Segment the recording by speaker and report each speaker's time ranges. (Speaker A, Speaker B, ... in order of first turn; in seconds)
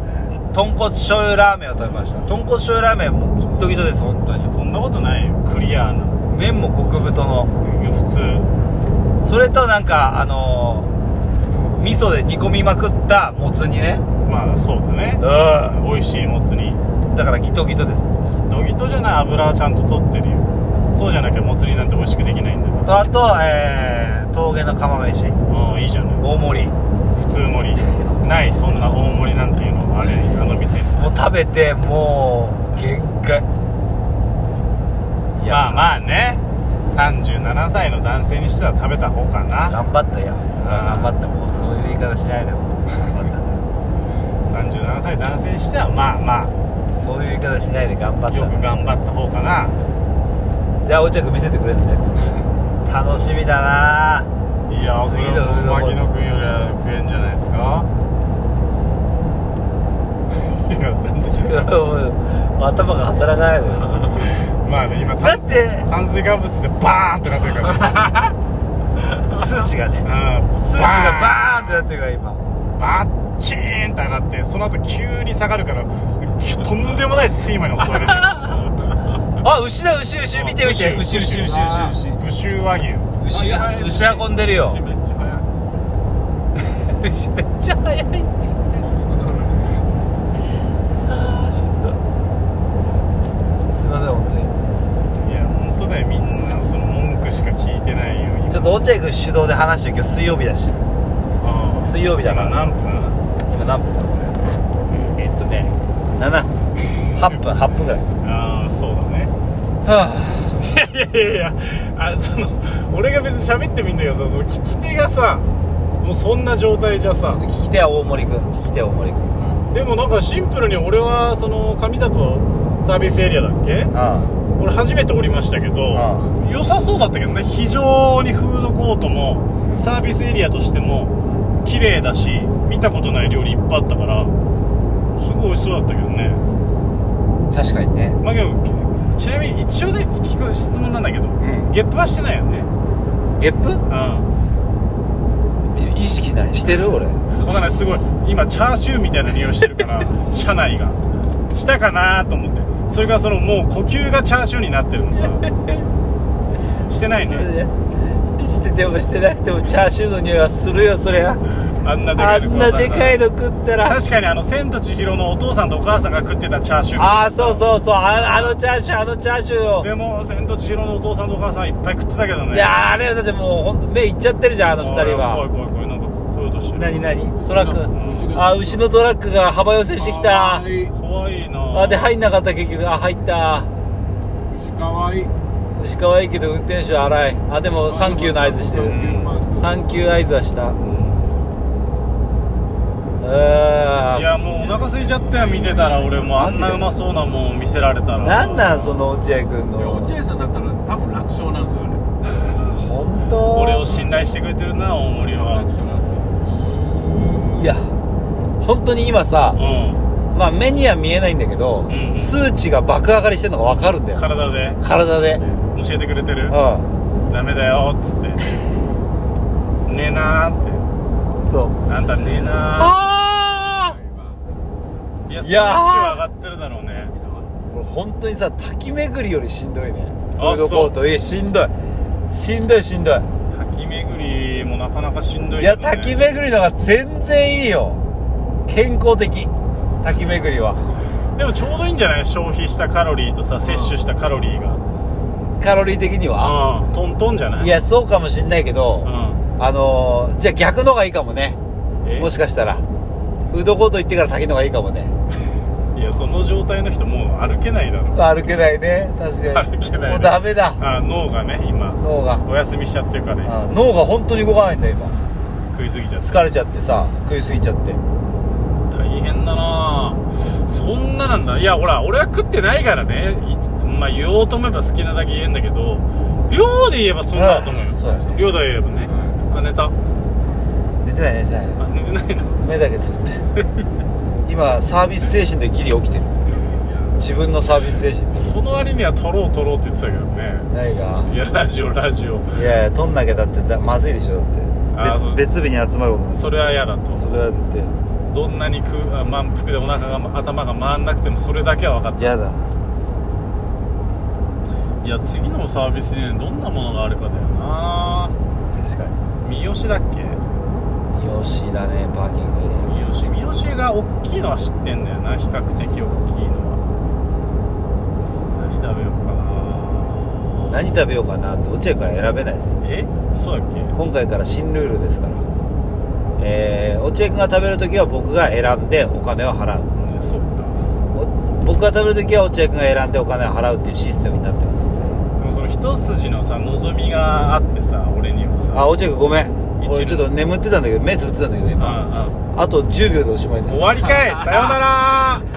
Speaker A: 0.5-4.5, 6.2-7.5, 9.2-10.9, 11.7-14.0, 15.2-15.8, 17.1-18.1, 22.8-25.4, 26.2-26.7, 30.9-33.5, 35.3-36.0, 39.7-43.6, 47.0-48.6, 50.8-52.3, 52.8-54.3, 55.0-56.0, 61.3-64.1, 65.2-65.9, 69.2-72.4, 78.3-78.7, 79.3-82.2, 83.2-84.8, 86.5-88.8, 91.0-92.0, 93.7-94.5, 98.5-100.8, 101.8-102.7, 103.5-104.4, 105.2-106.5, 107.1-108.0, 109.8-110.6, 117.3-119.3, 123.9-124.3, 125.9-126.3, 137.5-138.2, 141.4-141.7, 143.4-143.8, 145.7-147.2, 155.4-155.8, 157.2-161.4, 162.1-164.0, 166.9-169.9, 172.5-175.4, 176.8-180.7, 181.7-183.7, 185.8-190.8, 193.2-194.4, 196.3-196.9, 198.2-200.2, 202.7-204.0, 206.5-207.9, 208.6-209.6, 210.3-214.2, 214.8-215.4, 216.5-216.9, 221.4-221.8, 222.6-224.0, 225.4-226.2, 227.7-231.7, 232.3-233.3, 235.6-238.0, 238.7-239.5, 240.0-240.8, 245.6-246.6, 247.6-251.6, 252.2-252.8, 253.5-255.1, 258.1-260.8, 262.0-262.4, 263.4-265.2, 266.2-268.0, 277.3-278.3, 281.0-281.8, 282.6-283.4, 284.4-286.3, 287.2-288.5, 290.7-291.3, 292.5-296.5, 297.1-297.9, 302.2-302.7, 308.7-309.1, 311.1-313.3, 315.8-316.2, 320.7-322.7, 323.9-325.5, 326.4-329.9, 331.1-334.9, 338.7-342.0, 342.5-344.1
Speaker B: 4.4-6.2, 7.6-8.5, 14.2-16.8, 18.4-23.0, 25.5-26.2, 27.1-31.1, 35.5-39.8, 40.6-41.1, 44.5-46.5, 48.3-49.8, 54.7-57.9, 60.4-61.7, 64.3-68.2, 70.0-71.9, 72.8-78.7, 80.3-83.1, 95.2-98.8, 101.4-103.2, 104.9-105.1, 108.2-109.3, 110.6-115.5, 116.0-117.4, 119.7-123.9, 124.5-134.3, 135.1-136.4, 138.2-142.7, 143.9-144.3, 147.3-151.0, 151.5-155.4, 156.9-157.5, 161.8-163.2, 163.8-168.6, 169.8-172.7, 174.8-176.9, 177.9-178.3, 180.8-182.1, 188.8-189.3, 190.8-191.3, 194.1-199.1, 203.5-205.7, 209.6-210.1, 211.9-212.3, 214.1-214.8, 215.7-216.6, 217.3-218.4, 219.8-220.8, 221.9-223.0, 225.3-227.1, 230.4-230.9, 233.5-236.2, 241.3-244.8, 246.4-247.7, 249.0-249.4, 252.0-252.3, 255.9-258.2, 259.5-263.5, 265.7-266.4, 268.9-279.9, 281.8-282.6, 288.4-290.7, 291.2-292.5, 294.9-295.4, 296.3-297.3, 298.2-302.4, 305.0-308.3, 309.4-310.4, 312.8-316.8, 318.5-320.9, 322.8-323.9, 329.9-330.8, 335.4-338.9, 339.8-340.3, 341.8-342.4, 343.7-345.4
Speaker C: 81.0-82.1, 83.2-85.6, 88.8-89.8, 177.2-178.8, 179.9-180.9, 184.5-185.3, 187.8-190.3, 194.6-196.5, 199.8-202.0, 205.2-206.3, 223.8-224.4, 227.1-227.5, 279.0-279.4, 286.8-287.1